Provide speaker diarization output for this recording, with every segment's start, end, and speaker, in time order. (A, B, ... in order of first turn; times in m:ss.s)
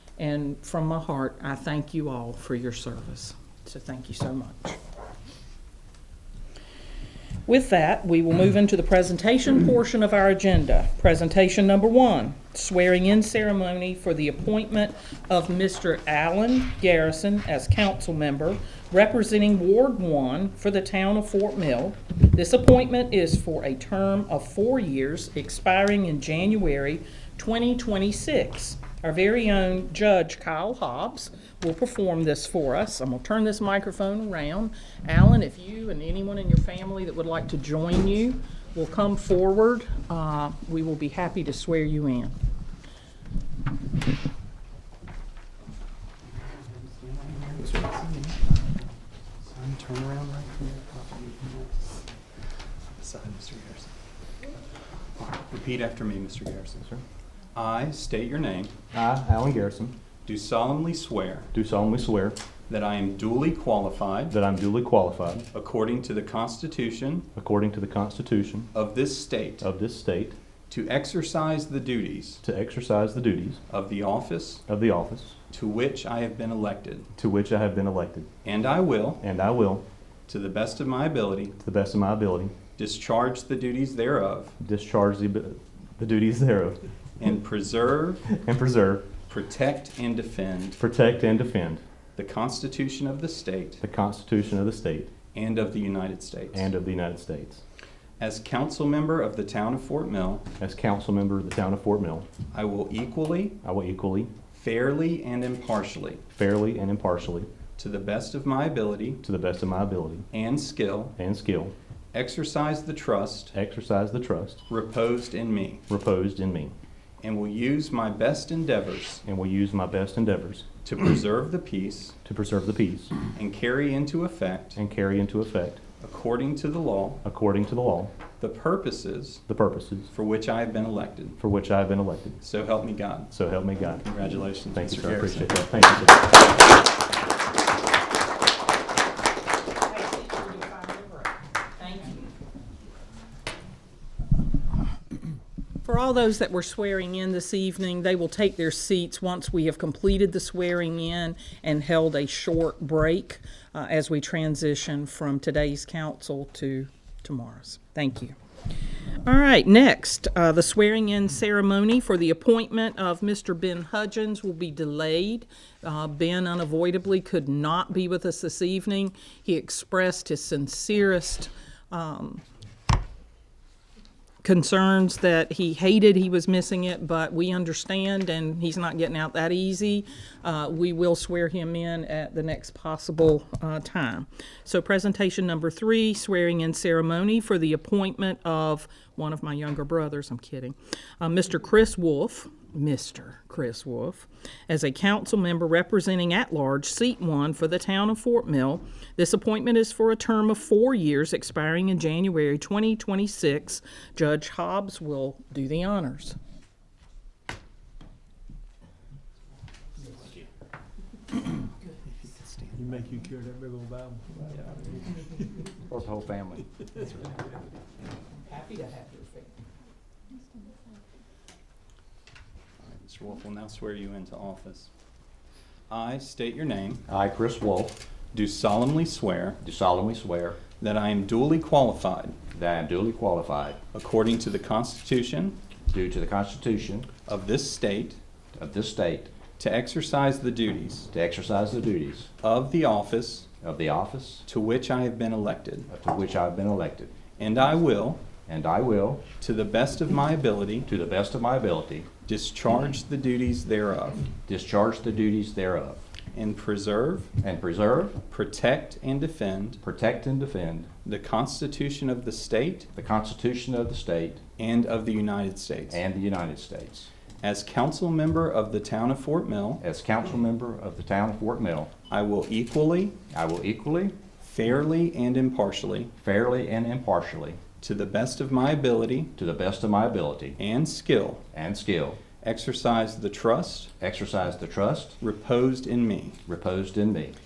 0:00.2-0:04.8 A
0:07.5-0:42.4 A
0:46.6-0:48.8 B
0:49.4-0:52.0 B
0:53.0-0:53.9 B
0:55.2-0:56.9 B
0:57.6-0:58.7 B
0:58.9-0:59.9 C
1:00.2-1:01.5 B
1:01.5-1:02.4 C
1:02.7-1:04.4 B
1:04.3-1:05.5 C
1:05.5-1:07.3 B
1:07.4-1:08.7 C
1:08.7-1:09.7 B
1:09.6-1:10.4 C
1:10.7-1:12.4 B
1:12.4-1:13.6 C
1:13.7-1:14.6 B
1:14.7-1:15.4 C
1:15.5-1:17.1 B
1:17.2-1:18.3 C
1:18.4-1:19.2 B
1:19.2-1:19.8 C
1:20.3-1:21.6 B
1:21.6-1:22.6 C
1:22.8-1:24.6 B
1:24.6-1:26.8 C
1:27.2-1:28.2 B
1:28.3-1:29.1 C
1:29.3-1:30.8 B
1:30.8-1:31.8 C
1:32.2-1:33.8 B
1:33.8-1:35.1 C
1:35.3-1:36.6 B
1:36.5-1:37.6 C
1:38.2-1:40.5 B
1:40.6-1:42.3 C
1:42.5-1:43.6 B
1:43.6-1:44.3 C
1:44.5-1:46.2 B
1:46.3-1:47.5 C
1:47.8-1:49.2 B
1:49.2-1:50.3 C
1:50.3-1:51.2 B
1:51.2-1:51.8 C
1:52.1-1:53.5 B
1:53.5-1:54.6 C
1:54.7-1:55.8 B
1:55.9-1:56.7 C
1:57.2-1:59.2 B
1:59.2-2:00.7 C
2:00.8-2:02.2 B
2:02.2-2:03.2 C
2:03.3-2:04.8 B
2:04.8-2:05.8 C
2:06.0-2:07.2 B
2:07.2-2:08.1 C
2:08.4-2:09.4 B
2:09.5-2:10.1 C
2:10.1-2:11.4 B
2:11.4-2:12.4 C
2:12.4-2:13.3 B
2:13.3-2:14.1 C
2:14.0-2:15.5 B
2:14.7-2:16.4 C
2:19.9-2:22.3 A
2:25.8-2:38.4 A
2:39.2-2:52.4 A
2:54.4-3:26.4 A
3:32.7-3:34.9 D
3:35.9-3:36.7 E
3:38.4-3:39.5 A
3:42.8-3:44.9 B
3:45.9-3:47.0 B
3:47.1-3:48.0 E
3:48.3-3:49.6 B
3:49.6-3:50.6 E
3:50.7-3:52.4 B
3:52.5-3:53.8 E
3:53.9-3:55.6 B
3:55.9-3:57.1 E
3:57.2-3:58.2 B
3:58.5-3:59.3 E
3:59.6-4:01.1 B
4:01.1-4:02.3 E
4:02.4-4:03.5 B
4:03.6-4:04.4 E
4:04.5-4:05.9 B
4:05.9-4:07.2 E
4:07.4-4:08.3 B
4:08.4-4:09.3 E
4:09.4-4:10.9 B
4:10.9-4:12.1 E
4:12.3-4:14.3 B
4:14.5-4:16.0 E
4:16.3-4:17.3 B
4:17.4-4:18.2 E
4:18.3-4:19.8 B
4:19.8-4:20.9 E
4:21.0-4:22.9 B
4:22.9-4:24.4 E
4:24.6-4:26.0 B
4:25.9-4:27.1 E
4:27.4-4:29.8 B
4:29.8-4:31.9 E
4:32.1-4:33.2 B
4:33.3-4:34.2 E
4:34.4-4:36.1 B
4:36.2-4:37.6 E
4:37.8-4:39.3 B
4:39.4-4:40.6 E
4:40.6-4:41.4 B
4:41.5-4:42.2 E
4:42.4-4:43.9 B
4:44.0-4:45.2 E
4:45.2-4:46.4 B
4:46.5-4:47.4 E